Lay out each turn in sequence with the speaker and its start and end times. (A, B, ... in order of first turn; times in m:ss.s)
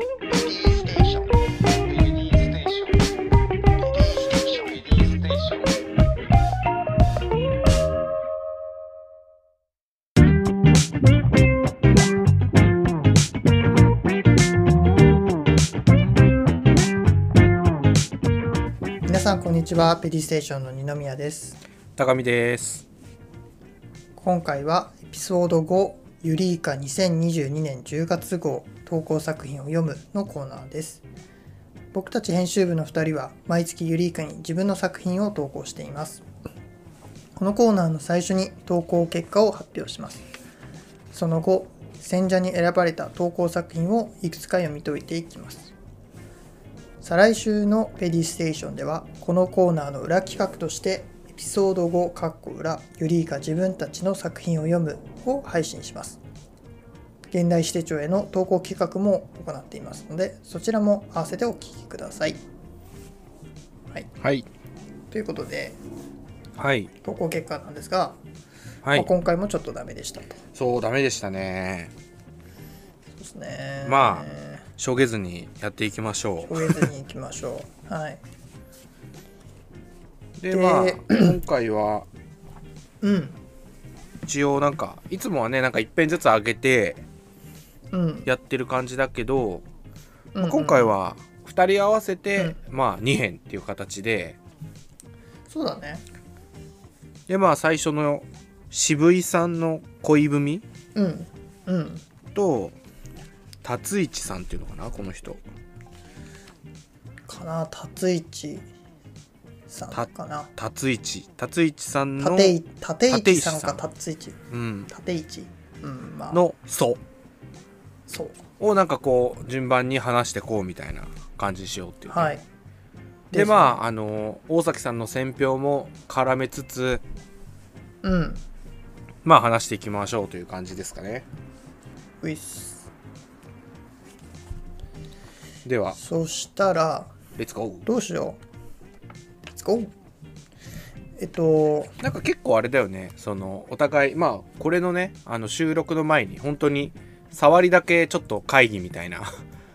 0:00.3-0:01.2 A
0:01.8-0:03.0 B
0:03.9-0:04.3 A
0:04.3-0:05.7 B
0:19.1-0:21.6 A
0:22.0-0:22.8 B
0:24.2-0:31.0 A
0:31.9-0:36.2 A
0:37.4-0:40.2 A
0:41.1-0:45.7 A
0:47.0-0:56.2 A
0:57.3-1:02.4 A
1:04.2-1:04.5 B
1:05.1-1:05.8 A
1:06.6-1:06.9 B
1:07.0-1:08.2 A
1:08.8-1:09.1 B
1:08.9-1:10.4 A
1:10.5-1:11.9 B
1:13.2-1:14.6 A
1:13.8-1:14.3 B
1:14.8-1:16.9 B
1:16.4-1:18.2 A
1:20.4-1:22.1 B
1:20.5-1:21.4 A
1:23.0-1:23.4 A
1:24.2-1:27.0 B
1:27.9-1:28.3 A
1:28.2-1:29.7 B
1:30.3-1:30.9 A
1:30.4-1:34.4 B
1:35.5-1:36.0 A
1:37.3-1:40.6 B
1:40.9-1:42.0 A
1:42.3-1:42.8 B
1:43.6-1:45.4 B
1:47.3-1:48.7 A
1:49.7-1:50.5 A
1:49.9-1:52.6 B
1:52.2-1:54.4 A
1:53.1-1:53.8 B
1:54.5-1:54.9 B
1:54.9-1:56.4 A
1:56.3-1:57.0 B
1:58.1-1:58.4 A
1:58.6-2:02.3 B
2:02.1-2:02.4 A
2:03.3-2:03.8 A
2:03.3-2:07.0 B
2:08.0-2:08.4 A
2:09.2-2:11.3 B
2:12.2-2:12.9 A
2:15.6-2:16.0 B
2:16.0-2:17.1 A
2:17.4-2:17.9 B
2:17.9-2:18.4 A
2:19.5-2:19.9 A
2:21.2-2:21.9 A
2:22.0-2:29.4 B